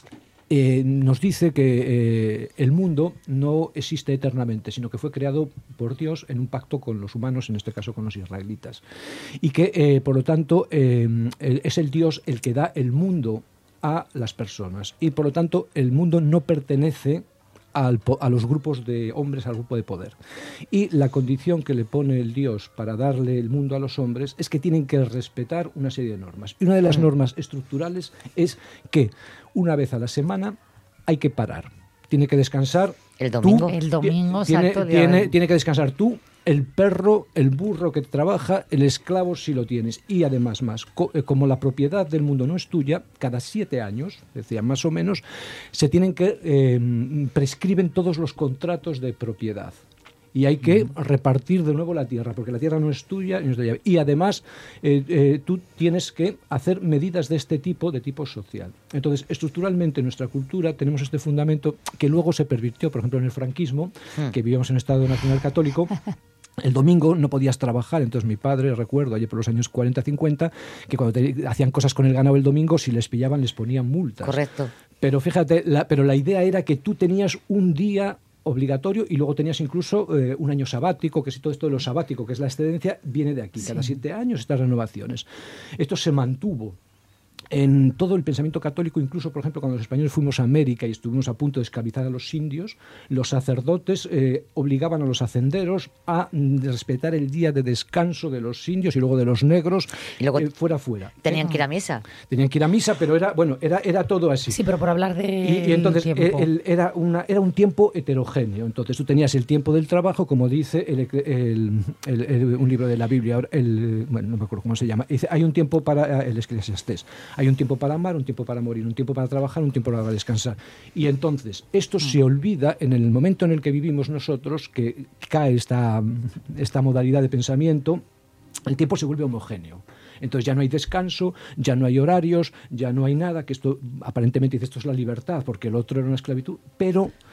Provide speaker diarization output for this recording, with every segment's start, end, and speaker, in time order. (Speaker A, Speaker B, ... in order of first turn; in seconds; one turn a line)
Speaker A: 0.5-8.8
Speaker A: 9.4-20.2
Speaker A: 20.7-30.6
Speaker A: 31.1-49.8
Speaker B: 33.2-33.7
Speaker C: 33.7-35.3
Speaker A: 50.3-65.9
Speaker A: 66.6-74.4
Speaker B: 74.2-74.7
Speaker A: 75.0-86.8
Speaker A: 87.5-101.4
Speaker B: 100.2-100.5
Speaker B: 101.2-102.0
Speaker C: 101.3-101.6
Speaker A: 102.3-104.6
Speaker C: 104.5-106.5
Speaker A: 105.4-128.0
Speaker A: 128.6-137.1